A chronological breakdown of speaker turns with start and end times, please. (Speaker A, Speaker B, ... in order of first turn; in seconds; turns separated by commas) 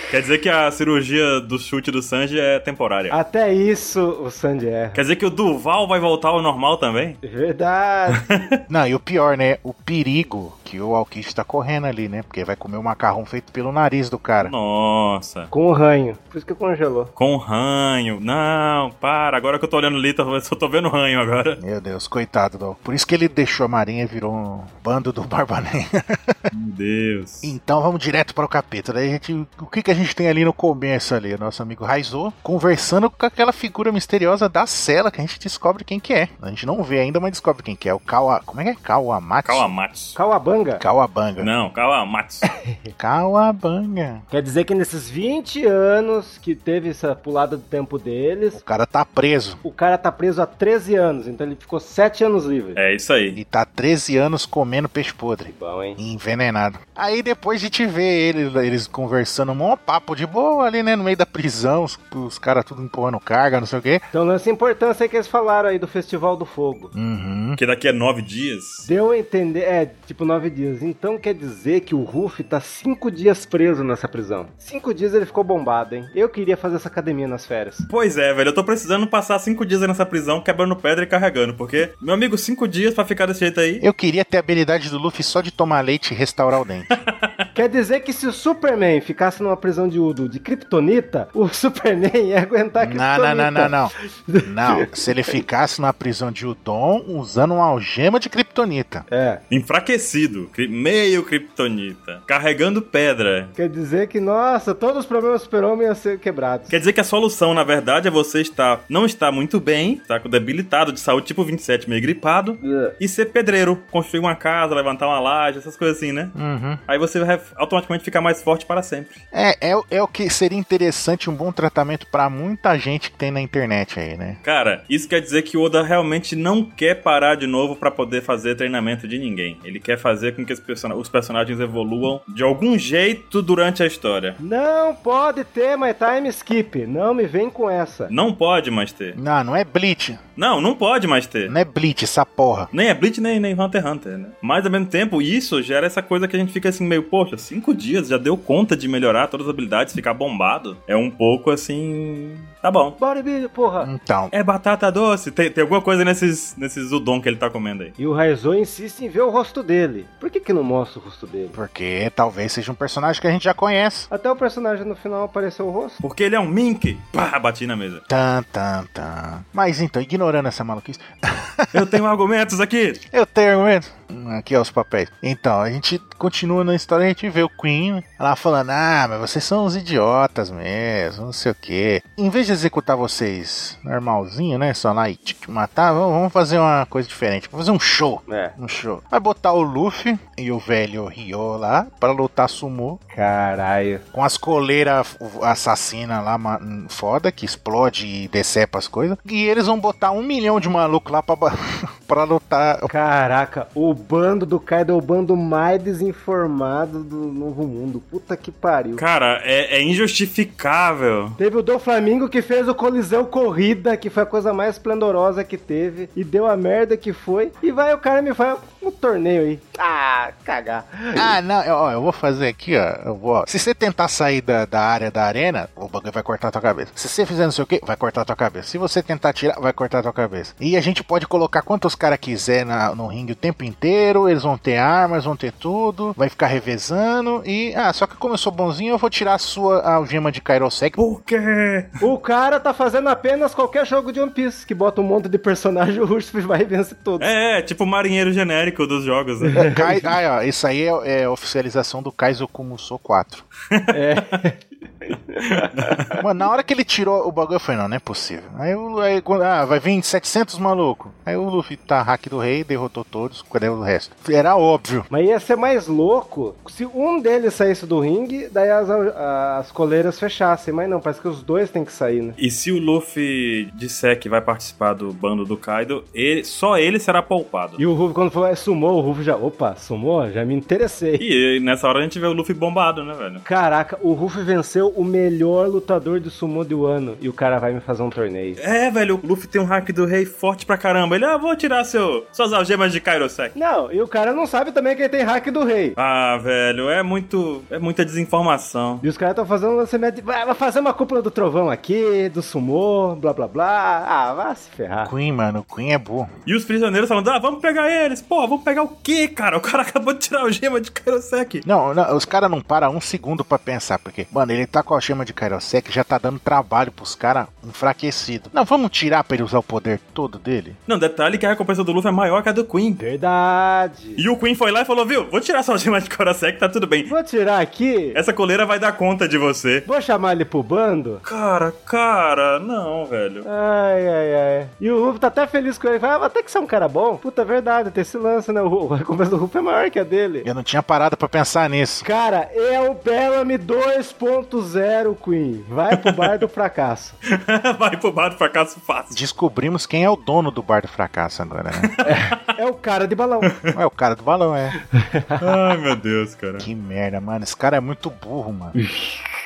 Speaker A: 0.1-3.2, Speaker B: 3.1-5.0, Speaker A: 4.9-7.2, Speaker B: 7.2-8.5, Speaker A: 8.1-8.5, Speaker C: 8.7-14.5, Speaker A: 14.4-15.5, Speaker B: 15.5-17.1, Speaker A: 17.2-21.6, Speaker C: 21.6-26.4, Speaker A: 26.5-27.5, Speaker C: 27.4-39.7, Speaker A: 39.5-40.2, Speaker B: 40.1-40.8, Speaker C: 40.8-41.5, Speaker A: 41.4-42.5, Speaker B: 42.6-42.9, Speaker C: 43.0-44.2, Speaker B: 44.3-48.6, Speaker C: 48.5-49.6, Speaker B: 49.6-52.8, Speaker A: 52.8-53.4, Speaker C: 53.3-64.1, Speaker B: 55.5-56.0, Speaker B: 64.1-66.9, Speaker C: 66.9-67.6, Speaker A: 67.6-68.9, Speaker B: 68.9-77.9, Speaker A: 77.9-83.8, Speaker C: 83.8-86.9, Speaker A: 86.9-87.3, Speaker B: 87.5-95.3, Speaker C: 92.8-93.9, Speaker C: 94.5-99.0, Speaker B: 99.1-99.4, Speaker A: 99.5-103.5, Speaker B: 103.6-106.8, Speaker A: 106.7-116.3, Speaker B: 112.6-113.0, Speaker C: 116.4-116.8, Speaker A: 116.9-119.2, Speaker C: 119.3-124.4, Speaker A: 124.4-134.4, Speaker B: 134.4-138.1, Speaker A: 138.1-139.2, Speaker C: 139.2-140.2, Speaker A: 140.4-141.5, Speaker C: 141.5-142.7, Speaker A: 142.7-153.0, Speaker B: 153.0-153.9, Speaker C: 153.8-154.3, Speaker A: 154.3-157.9, Speaker B: 158.0-161.6, Speaker C: 161.6-164.1, Speaker B: 164.1-166.0, Speaker A: 166.0-168.0, Speaker C: 168.1-172.0, Speaker A: 171.7-173.0, Speaker C: 173.1-193.0, Speaker B: 188.3-188.6, Speaker B: 193.1-194.0, Speaker C: 194.1-202.9, Speaker B: 202.9-209.0, Speaker A: 209.0-211.4, Speaker B: 211.4-221.4, Speaker C: 221.2-241.0, Speaker A: 241.0-242.0, Speaker B: 242.0-247.3, Speaker A: 247.2-249.7, Speaker B: 249.5-250.0, Speaker C: 249.6-253.4, Speaker A: 253.7-254.2, Speaker B: 253.9-256.1, Speaker A: 255.4-256.2, Speaker C: 256.2-265.1, Speaker B: 265.1-272.4, Speaker A: 272.4-277.8, Speaker B: 277.8-281.2, Speaker A: 281.2-283.4, Speaker B: 283.4-288.6, Speaker A: 288.6-293.5, Speaker B: 293.6-296.0, Speaker A: 296.0-299.0, Speaker B: 299.0-305.1, Speaker C: 305.1-306.3, Speaker A: 306.5-311.6, Speaker C: 311.6-320.8, Speaker A: 320.9-323.0, Speaker B: 323.0-324.2, Speaker A: 324.2-327.1, Speaker B: 327.1-328.2, Speaker A: 328.1-329.9, Speaker B: 329.9-331.2, Speaker A: 331.2-333.5, Speaker B: 333.4-340.5, Speaker C: 340.4-342.1, Speaker B: 342.0-347.2, Speaker A: 345.9-346.4, Speaker A: 347.3-349.2, Speaker C: 349.1-351.9, Speaker A: 351.8-352.4, Speaker B: 352.0-353.5, Speaker A: 353.4-353.8, Speaker C: 353.7-354.8, Speaker B: 354.9-355.6, Speaker A: 355.4-356.7, Speaker C: 356.6-358.8, Speaker B: 358.8-359.2